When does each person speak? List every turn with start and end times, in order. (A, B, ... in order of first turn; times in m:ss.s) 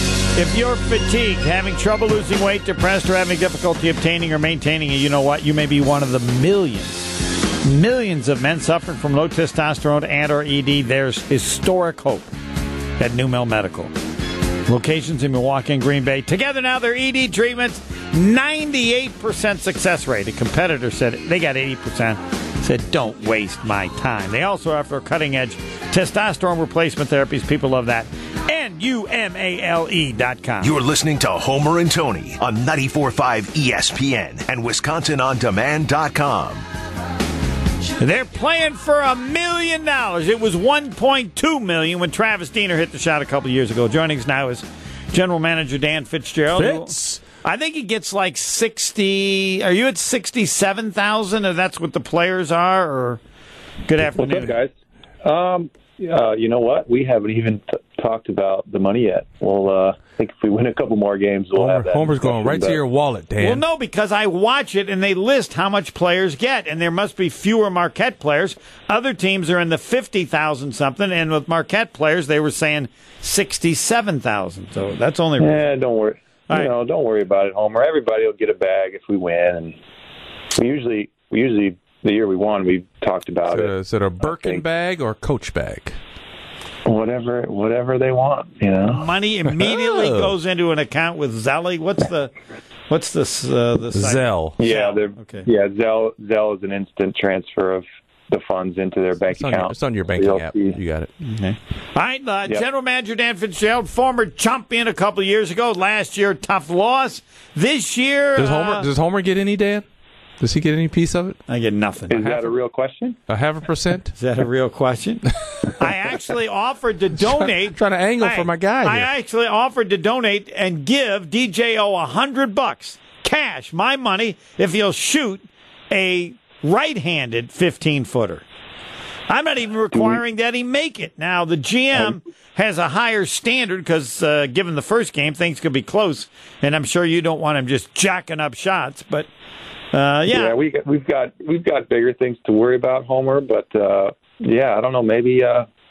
0:00.3-0:07.1 A
0:07.6-0:12.3 A
0:13.0-0:13.9 A
0:14.7-0:30.8 A
0:30.6-0:36.6 B
0:38.0-0:53.2 A
0:46.5-0:47.2 C
0:53.8-0:54.6 A
0:54.2-0:54.7 D
0:55.2-1:02.8 D
1:01.6-1:03.6 C
1:03.4-1:15.6 A
1:15.4-1:19.8 D
1:20.6-1:24.6 D
1:23.5-1:25.9 C
1:26.8-1:29.1 D
1:28.9-1:32.3 A
1:29.5-1:30.3 C
1:32.9-1:35.5 A
1:33.9-1:34.6 C
1:34.6-1:40.8 D
1:39.3-1:41.1 C
1:41.2-1:48.9 A
1:48.4-1:49.8 C
1:50.4-1:51.4 C
1:51.5-1:52.2 A
1:52.1-1:53.2 D
1:53.3-1:54.1 C
1:54.1-2:08.4 A
1:57.6-1:59.1 C
2:09.3-2:19.3 A
2:19.9-2:20.6 A
2:20.3-2:25.7 D